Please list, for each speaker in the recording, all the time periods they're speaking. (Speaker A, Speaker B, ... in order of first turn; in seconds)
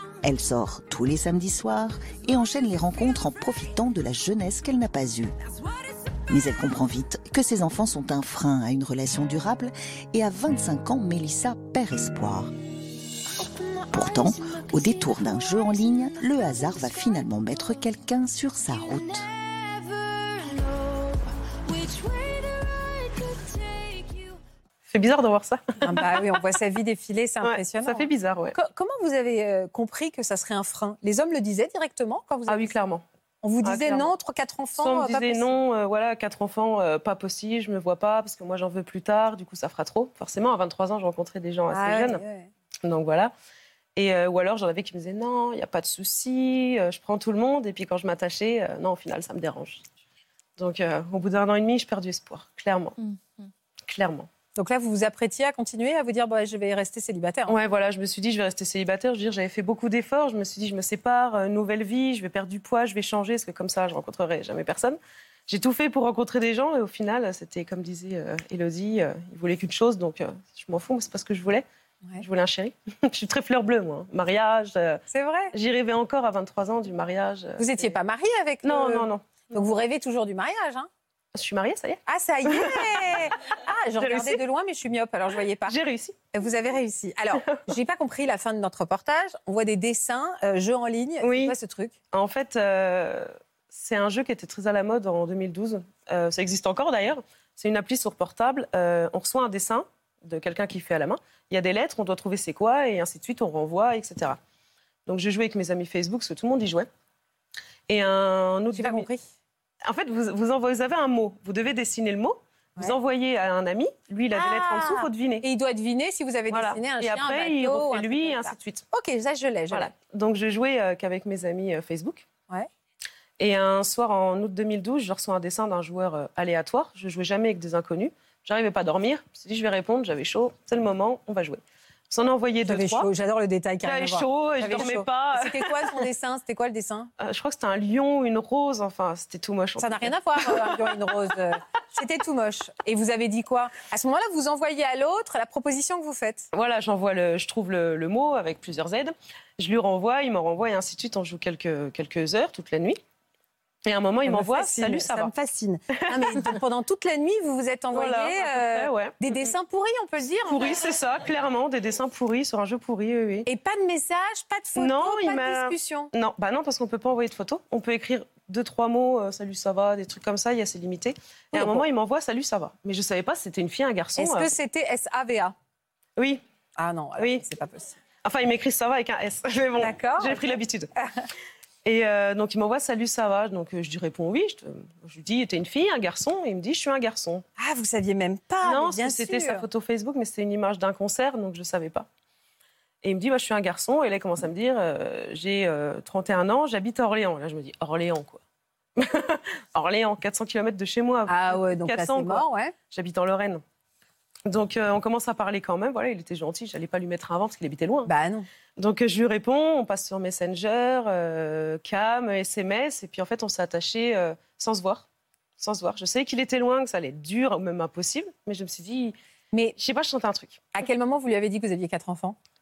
Speaker A: 0.2-5.3, 6.3-12.5, 13.9-19.3
Speaker B: 13.5-13.9, 25.8-32.7, 33.4-35.5, 41.7-42.5, 54.5-57.5, 75.1-75.5, 77.6-80.9, 82.1-85.7, 86.3-91.9, 108.7-109.2, 114.3-119.9, 132.6-137.1, 139.8-146.5, 154.2-160.8, 163.4-166.1, 171.5-171.8, 174.2-175.5, 176.8-178.0, 179.8-180.5, 187.6-189.6, 201.3-202.7, 208.1-208.5, 220.7-222.3
Speaker C: 24.9-26.1, 27.4-28.6, 32.5-33.0, 33.6-34.1, 34.8-42.2, 42.8-43.3, 44.0-49.8, 50.6-52.9, 53.9-54.3, 57.5-71.6, 72.2-75.0, 75.5-77.9, 78.6-79.2, 81.3-83.2, 84.0-84.4, 85.7-86.2, 91.2-91.5, 92.1-104.4, 105.0-106.9, 107.9-109.1, 109.8-115.4, 116.5-118.8, 119.7-122.2, 123.4-133.1, 133.8-135.9, 137.2-140.8, 146.5-153.0, 153.8-155.3, 156.0-156.5, 157.9-159.3, 160.5-163.5, 164.7-174.5, 176.2-176.4, 177.2-177.4, 178.2-180.9, 181.8-187.4, 188.6-192.1, 193.0-198.4, 199.0-203.6, 204.5-208.1, 208.8-215.1, 215.6-219.2, 219.8-220.7